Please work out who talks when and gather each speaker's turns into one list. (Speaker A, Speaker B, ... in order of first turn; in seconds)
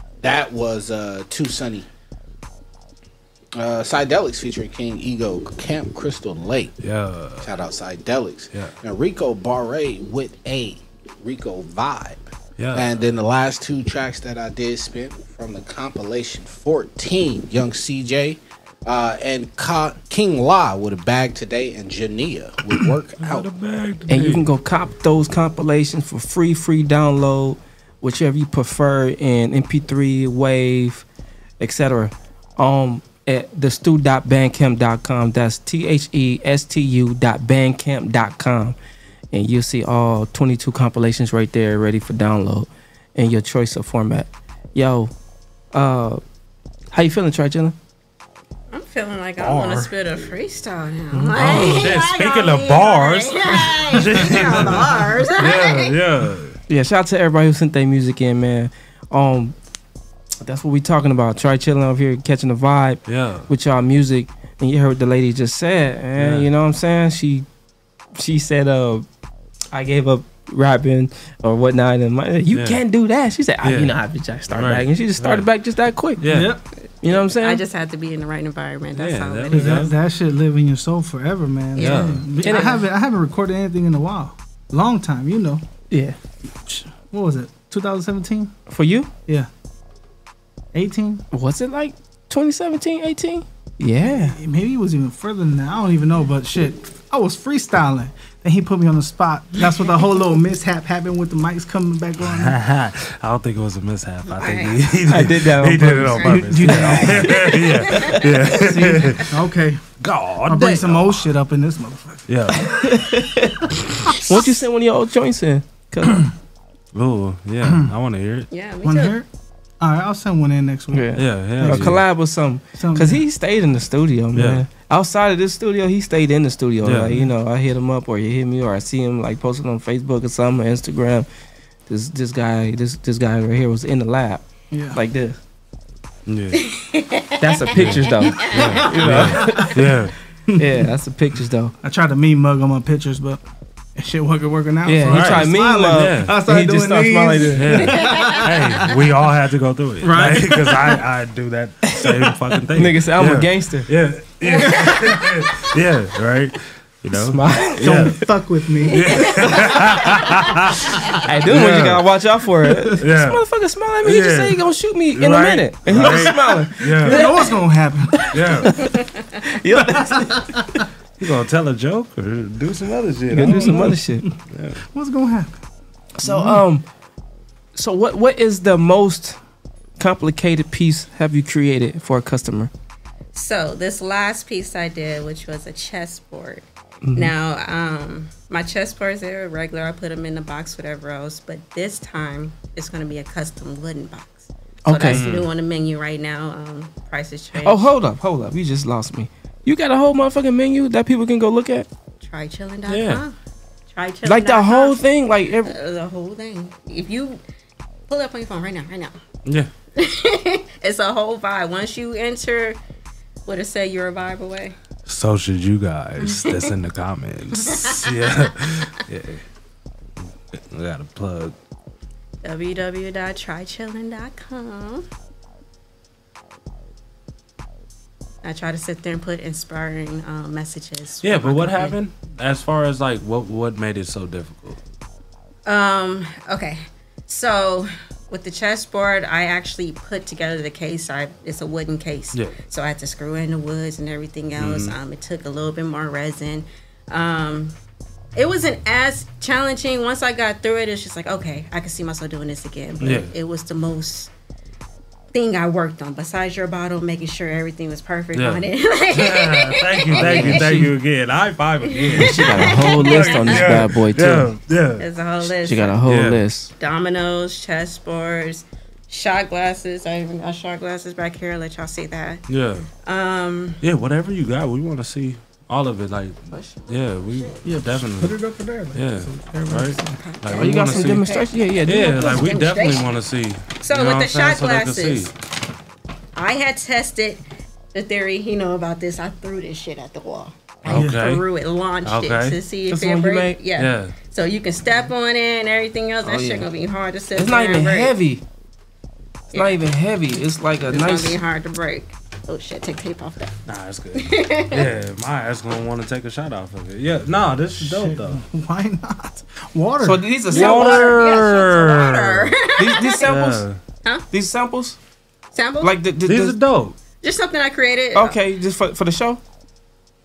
Speaker A: 0.2-1.9, 3.5-6.7, 7.4-12.2, 12.7-23.5
Speaker B: 6.8-7.5, 12.6-13.1, 23.2-24.5, 49.4-49.9, 51.3-56.6, 63.1-63.5, 66.2-66.5, 72.5-72.8, 73.6-74.0, 74.5-75.5, 76.2-76.5, 79.0-80.0, 81.8-82.3, 102.2-109.3, 110.0-111.3, 112.3-112.7, 116.9-118.5, 121.2-122.0, 124.3-124.7, 126.8-127.2, 136.3-136.6, 137.7-140.1, 145.1-146.4, 147.5-158.2, 158.9-160.9, 161.5-162.0, 163.0-163.4, 164.0-164.6, 165.2-167.3, 168.3-168.7, 171.2-173.9, 174.5-174.8, 195.1-195.5, 202.9-203.2, 215.1-219.4, 220.6-221.6, 231.2-234.8, 244.6-244.9, 253.0-253.3, 258.3-265.0, 266.0-266.4, 272.5-272.9, 273.8-278.4, 278.9-285.3, 290.9-291.4, 292.0-292.6, 293.8-294.1, 303.7-308.4, 310.5-312.6, 313.2-313.8, 316.3-317.0
Speaker C: 24.1-31.1, 31.6-38.8, 39.3-45.1, 45.7-46.2, 46.9-47.7, 51.1-51.9, 56.7-59.5, 60.4-67.5, 68.2-69.0, 69.7-76.3, 77.0-77.6, 82.4-82.8, 85.9-86.2, 88.7-89.1, 91.3-94.4, 105.1-107.2, 112.8-113.5, 114.2-116.2, 120.9-131.3, 131.9-135.4, 137.4-139.7, 140.6-141.7, 144.9-147.8, 152.7-153.9, 157.3-158.2, 161.2-167.3, 168.7-168.9, 169.4-170.6, 173.3-174.3, 176.2-176.8, 177.7-179.4, 180.0-182.7, 187.1-187.3, 194.9-195.3, 197.6-201.9, 204.2-205.7, 260.1-260.9, 262.1-264.5, 265.6-266.7, 280.5-282.5, 292.9-293.6, 296.2-296.7, 297.4-298.4, 299.5-301.4, 310.0-311.1, 312.8-313.6, 314.3-315.0, 315.8-316.6, 318.1-319.4
Speaker D: 48.7-56.0, 77.1-79.9, 81.8-82.8, 104.3-104.8, 106.2-108.5, 118.5-119.2, 136.6-137.3, 183.3-197.9, 202.2-203.3, 203.9-205.0, 205.7-207.4, 208.1-209.2, 210.0-212.8, 213.4-214.7, 216.2-216.7, 217.7-218.1, 222.4-225.1, 228.4-231.9, 235.7-247.7, 248.4-254.3, 255.3-260.8, 261.9-263.7, 265.0-266.0, 266.8-272.4, 273.1-273.8, 280.2-283.1, 283.8-285.3, 286.4-287.4, 287.9-298.1, 299.5-299.8, 300.9-303.5, 304.1-304.9, 310.5-313.3, 315.5-315.9, 317.2-318.4
Speaker E: 76.3-76.6, 79.5-85.6, 86.7-88.5, 90.7-91.2, 94.0-102.6, 106.3-107.3, 108.5-109.8, 110.5-112.3, 117.6-117.9, 118.8-119.3, 119.8-122.0, 122.8-123.2, 134.7-135.0, 139.1-139.7, 141.8-143.4, 144.0-148.9, 150.0-150.9, 157.8-159.4, 165.9-168.5, 169.8-170.8, 173.4-174.3, 174.9-175.6, 176.2-176.6, 277.6-280.2, 307.8-310.4